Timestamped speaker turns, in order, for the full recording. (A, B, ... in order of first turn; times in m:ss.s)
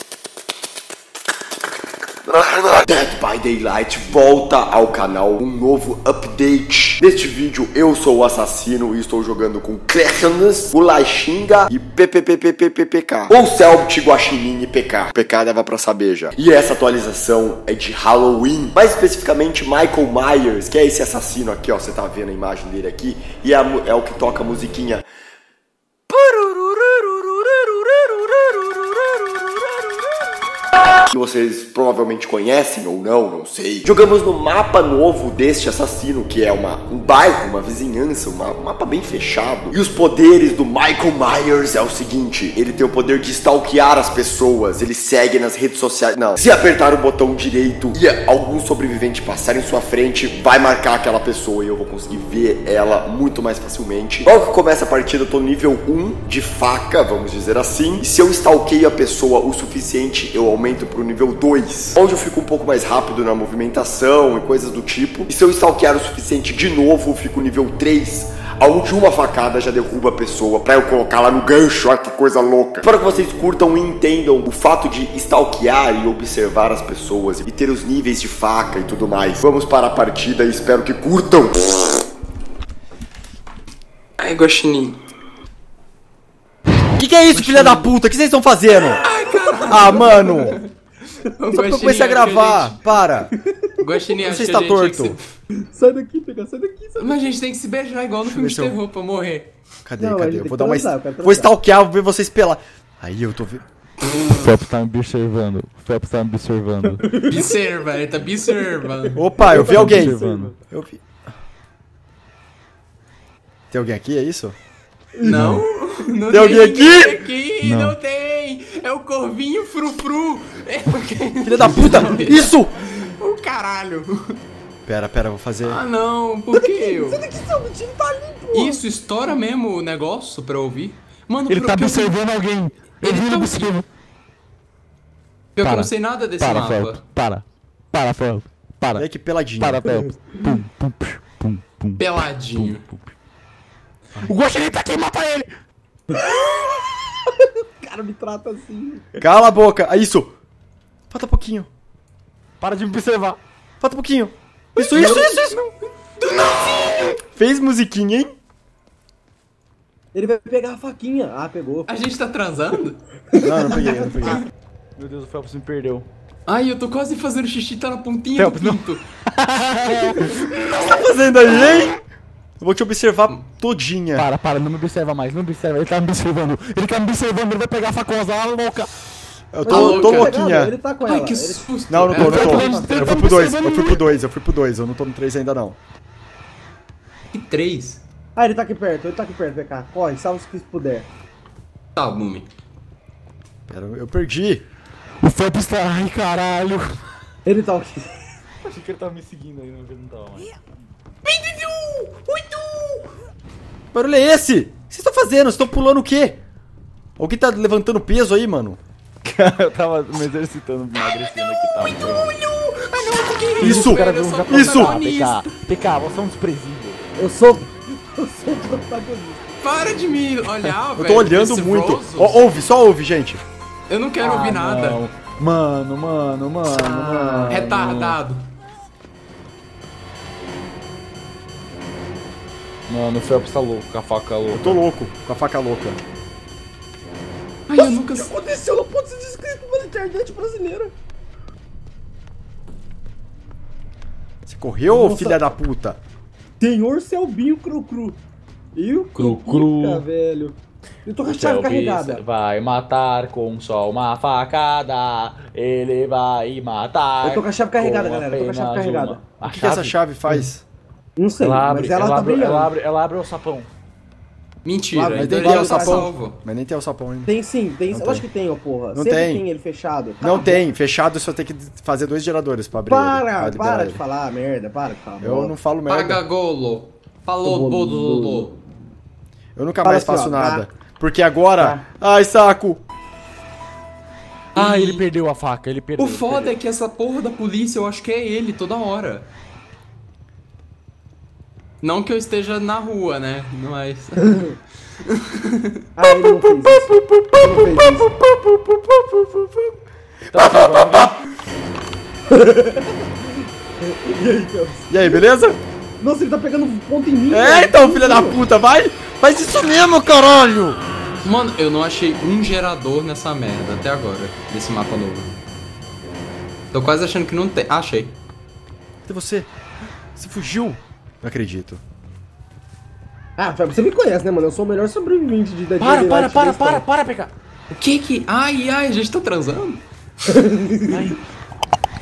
0:02.2-0:25.0 A
0:26.1-0:27.0 A
0:31.0-1:22.0 A
1:24.2-1:25.0 B
1:27.0-1:29.0 C
1:27.3-1:27.9 B
1:28.8-1:30.5 D
1:29.0-1:30.7 B
1:29.7-1:30.6 C
1:31.4-1:32.8 B
1:31.5-1:33.3 C
1:33.4-1:33.8 D
1:33.8-1:35.2 B
1:34.2-1:35.2 C
1:35.7-1:37.2 D
1:37.0-1:39.5 B
1:38.2-1:38.8 C
1:39.8-1:43.6 C
1:40.0-1:41.5 D
1:44.3-1:47.1 E
1:47.0-1:47.4 D
1:47.2-1:49.2 B
1:49.2-1:50.2 C
1:49.3-1:50.5 D
1:49.5-1:50.5 E
1:50.7-1:51.0 C
1:53.7-1:54.6 C
1:55.2-1:55.5 D
1:55.2-2:04.4 B
1:55.2-1:55.6 E
1:56.3-1:57.2 C
1:57.6-1:58.0 E
2:01.4-2:02.7 C
2:04.8-2:05.8 C
2:05.6-2:07.2 B
2:06.5-2:08.8 D
2:08.5-2:12.2 B
2:11.5-2:13.8 E
2:12.9-2:13.8 B
2:15.6-2:17.0 B
2:15.6-2:19.0 E
2:19.0-2:19.9 C
2:19.6-2:22.0 E
2:22.0-2:22.8 B
2:22.5-2:23.1 E
2:24.2-2:25.5 E
2:26.1-2:29.1 D
2:29.2-2:30.3 C
2:31.1-2:31.7 C
2:32.6-2:33.4 E
2:33.8-2:35.5 C
2:34.9-2:35.6 E
2:35.0-2:35.6 D
2:36.3-2:37.1 B
2:37.3-2:38.3 C
2:40.1-2:41.9 D
2:41.9-2:43.0 B
2:43.3-2:44.1 D
2:43.4-2:44.4 C
2:45.0-2:46.0 E
2:46.5-2:49.0 B
2:48.4-2:50.5 E
2:50.7-2:52.0 C
2:52.6-2:54.3 C
2:54.2-2:58.9 E
2:59.5-3:00.7 C
2:59.6-3:01.7 D
2:59.7-3:00.4 B
3:01.0-3:02.6 B
3:01.9-3:05.8 C
3:02.2-3:04.2 E
3:02.3-3:03.0 D
3:07.3-3:08.0 B
3:08.3-3:11.1 D
3:12.0-3:12.5 B
3:13.7-3:14.6 C
3:15.2-3:17.0 E
3:17.4-3:18.1 D
3:18.6-3:20.5 E
3:21.2-3:23.1 B
3:23.9-3:26.4 C
3:27.2-3:28.8 C
3:29.2-3:32.3 E
3:31.6-3:35.5 B
3:33.6-3:37.0 E
3:33.6-3:34.9 C
3:37.2-3:39.6 D
3:39.6-3:42.4 B
3:41.0-3:43.4 C
3:43.9-3:45.0 B
3:44.2-3:48.2 E
3:46.7-3:47.6 D
3:47.5-3:48.5 B
3:52.9-3:54.8 E
3:54.5-3:56.0 C
3:57.7-3:58.3 B
3:57.7-4:00.9 D
4:04.4-4:06.0 C
4:04.9-4:05.5 D
4:06.6-4:08.2 D
4:08.8-4:12.2 D
4:09.2-4:10.0 E
4:11.2-4:20.4 E
4:17.2-4:19.2 D
4:19.5-4:20.6 C
4:21.2-4:22.7 D
4:21.4-4:23.7 E
4:24.6-4:26.4 B
4:24.9-4:26.0 D
4:25.0-4:25.3 E
4:25.1-4:27.3 C
4:27.2-4:30.7 D
4:27.9-4:28.2 C
4:28.9-4:29.4 C
4:30.2-4:34.0 C
4:32.7-4:35.5 D
4:35.2-4:36.2 C
4:35.9-4:38.6 B
4:37.4-4:38.5 D
4:39.6-4:42.8 C
4:39.8-4:40.7 D
4:44.5-4:45.0 B
4:44.5-4:46.5 E
4:46.0-4:49.3 B
4:51.8-4:54.5 B
4:55.1-4:55.6 B
4:56.0-4:58.1 D
5:00.3-5:01.2 E
5:00.3-5:01.1 C
5:02.3-5:03.1 D
5:03.8-5:05.2 D
5:04.9-5:05.6 C
5:06.0-5:08.4 D
5:07.3-5:10.8 C
5:11.2-5:15.3 B
5:16.7-5:18.2 B
5:19.0-5:19.5 C
5:20.2-5:21.8 C
5:23.4-5:26.8 D
5:25.8-5:27.3 E
5:27.7-5:29.8 B
5:30.3-5:31.1 D
5:30.9-5:31.2 E